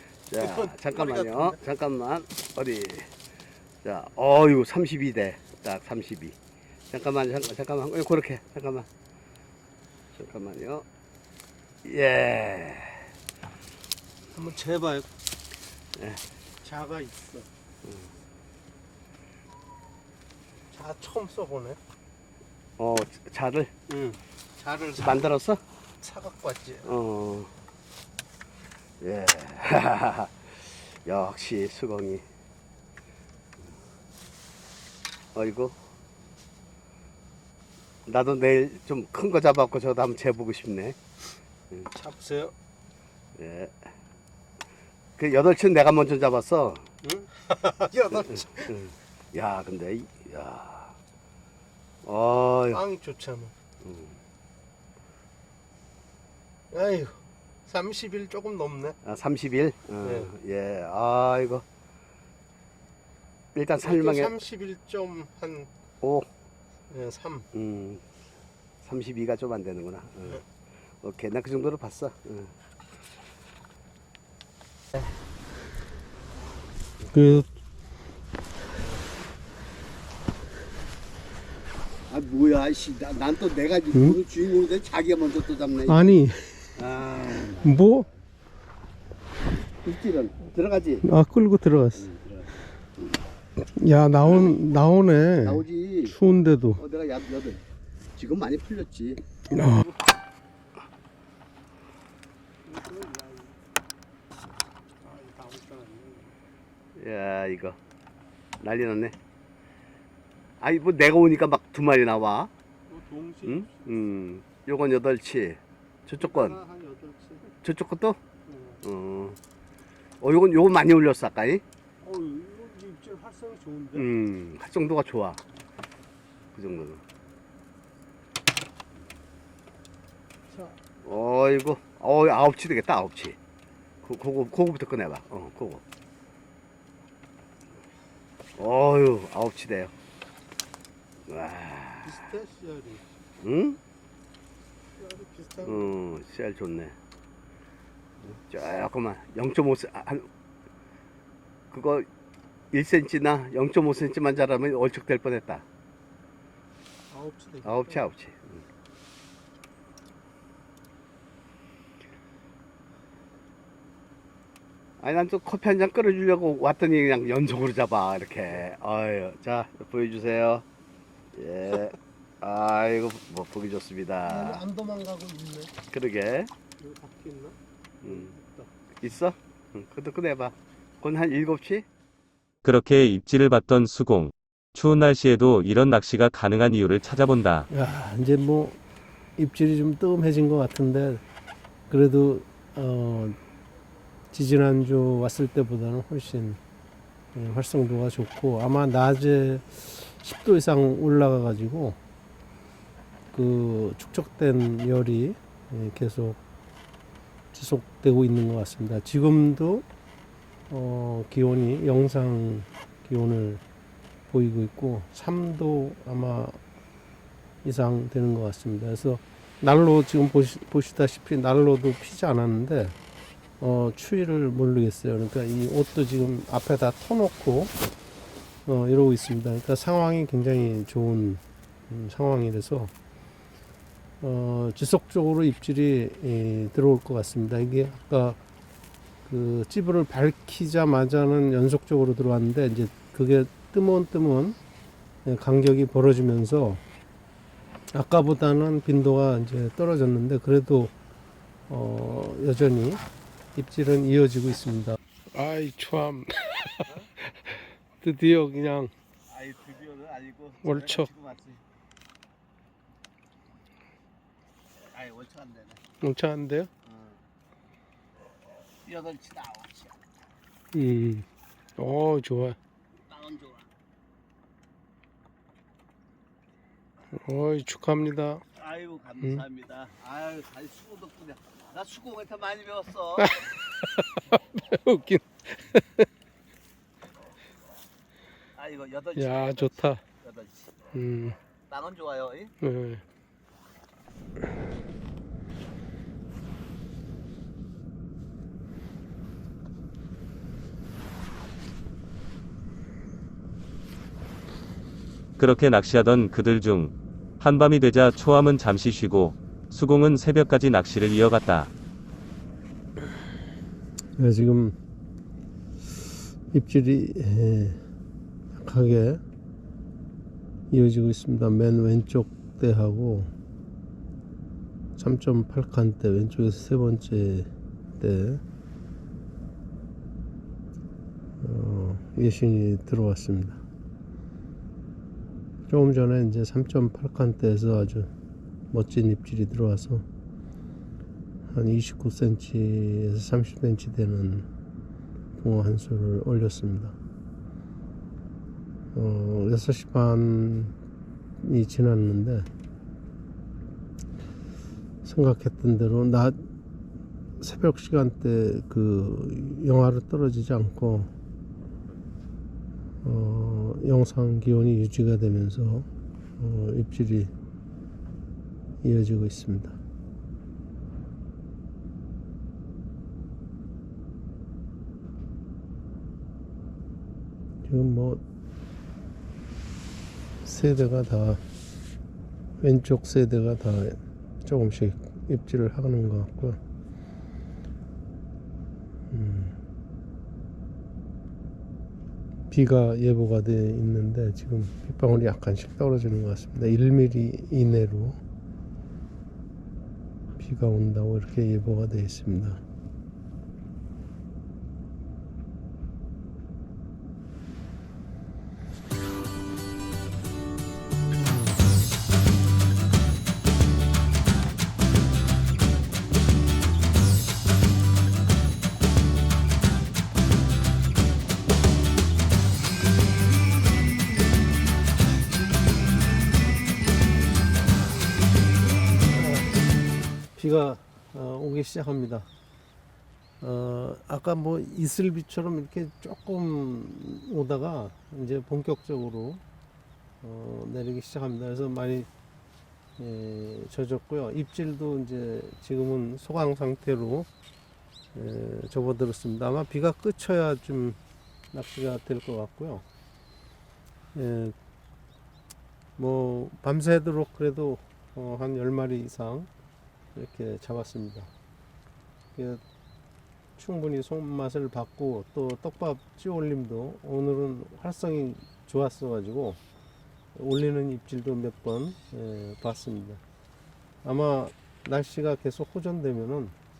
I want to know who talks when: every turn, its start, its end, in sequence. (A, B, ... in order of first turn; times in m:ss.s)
0:00.3-0:03.1 A
0:00.4-0:01.6 B
0:03.8-0:06.3 A
0:06.9-0:08.8 A
0:10.1-0:10.8 A
0:11.8-0:13.1 A
0:14.3-0:15.1 B
0:16.0-0:16.2 A
0:16.6-0:17.5 B
0:20.7-0:21.8 B
0:22.8-0:23.7 A
0:23.9-0:25.1 B
0:25.0-0:25.6 A
0:26.0-0:26.9 B
0:26.8-0:27.5 A
0:29.0-0:32.2 A
0:35.3-0:35.8 A
0:38.1-0:41.0 A
0:41.9-0:42.5 B
0:43.4-0:43.7 A
0:45.2-0:46.8 A
0:47.0-0:48.7 B
0:48.7-0:51.0 A
0:52.0-0:52.8 A
0:52.7-0:53.5 B
0:53.8-0:54.2 A
0:56.7-0:59.0 B
0:59.0-1:01.6 A
1:00.0-1:00.3 B
1:03.5-1:04.4 A
1:03.8-1:05.7 B
1:06.0-1:06.3 A
1:06.9-1:07.5 B
1:07.5-1:08.0 A
1:08.8-1:10.4 A
1:11.0-1:12.5 A
1:17.1-1:17.5 B
1:22.1-1:26.2 A
1:23.9-1:24.2 B
1:25.9-1:26.7 B
1:26.8-1:27.8 A
1:27.6-1:28.1 B
1:29.8-1:31.1 A
1:31.0-1:32.1 B
1:32.0-1:32.5 A
1:33.6-1:36.8 B
1:34.3-1:34.5 A
1:35.4-1:36.2 A
1:36.8-1:37.6 A
1:38.2-1:39.2 A
1:39.5-1:39.9 B
1:42.7-1:43.6 B
1:45.0-1:46.3 B
1:46.9-1:47.8 A
1:48.6-1:49.2 A
1:50.6-1:52.5 A
1:52.9-1:54.1 B
1:53.4-1:56.6 A
1:56.2-1:57.5 B
1:57.6-1:58.2 A
1:58.5-1:58.8 B
1:58.8-1:59.4 A
2:00.2-2:01.6 A
2:02.0-2:04.1 B
2:03.9-2:05.4 A
2:06.5-2:07.0 A
2:11.0-2:13.4 A
2:14.0-2:15.8 A
2:18.6-2:19.9 A
2:21.3-2:22.1 A
2:22.0-2:23.0 B
2:23.4-2:23.8 A
2:25.0-2:25.9 B
2:25.6-2:27.0 A
2:28.3-2:30.3 A
2:31.7-2:32.1 A
2:32.7-2:35.6 A
2:37.1-2:38.1 B
2:37.6-2:38.6 A
2:45.0-2:50.6 A
2:51.3-2:54.6 A
2:54.2-2:55.7 B
2:55.9-2:56.5 A
2:56.8-2:58.7 B
2:58.0-2:58.3 A
2:59.0-3:01.8 A
3:02.6-3:07.7 C
3:07.7-3:08.8 B
3:09.4-3:11.2 B
3:11.9-3:13.4 B
3:14.3-3:16.6 B
3:17.3-3:22.0 B
3:23.3-3:26.4 B
3:27.5-3:29.8 B
3:30.7-3:33.6 B
3:34.3-3:36.6 B
3:37.6-3:43.0 B
3:43.6-3:47.7 B
3:48.6-3:52.9 B
3:54.2-3:58.4 B
3:59.2-4:04.6 B
4:05.2-4:06.8 B
4:07.9-4:10.9 B
4:11.7-4:13.0 B
4:13.5-4:18.9 B
4:19.3-4:21.6 A
4:20.6-4:21.1 B
4:24.9-4:25.8 A
4:26.0-4:26.7 B
4:26.8-4:27.2 A
4:28.8-4:30.0 A
4:30.7-4:31.2 B
4:31.8-4:32.6 B
4:33.1-4:33.7 A
4:37.1-4:38.4 B
4:38.5-4:43.3 A
4:43.2-4:46.0 B
4:48.6-4:50.7 A
4:49.2-4:50.0 B
4:50.9-4:51.4 B
4:51.7-4:52.5 A
4:52.6-4:53.0 B
5:05.4-5:11.7 C
5:14.2-5:14.8 B
5:16.5-5:17.8 B
5:18.5-5:19.2 B
5:20.7-5:23.3 B
5:25.0-5:28.4 B
5:31.4-5:33.6 B
5:35.7-5:38.1 B
5:38.7-5:40.0 B
5:41.5-5:44.5 B
5:45.4-5:46.9 B
5:48.9-5:50.8 B
5:51.4-5:52.5 B
5:55.0-5:56.4 B
5:57.4-6:01.1 B
6:03.0-6:07.3 B
6:08.8-6:09.8 B
6:17.6-6:18.2 B
6:20.4-6:21.4 B
6:22.6-6:26.6 B
6:29.1-6:29.5 B
6:32.5-6:38.2 B
6:40.4-6:42.6 B
7:09.1-7:09.5 B
7:10.4-7:12.3 B
7:13.4-7:19.4 B
7:20.2-7:22.1 B
7:23.0-7:27.3 B
7:28.1-7:31.0 B
7:31.5-7:32.8 B
7:34.1-7:34.6 B
7:36.0-7:39.5 B
7:40.1-7:41.3 B
7:42.4-7:42.6 B
7:43.6-7:49.6 B
7:50.3-7:53.2 B
7:54.0-7:56.5 B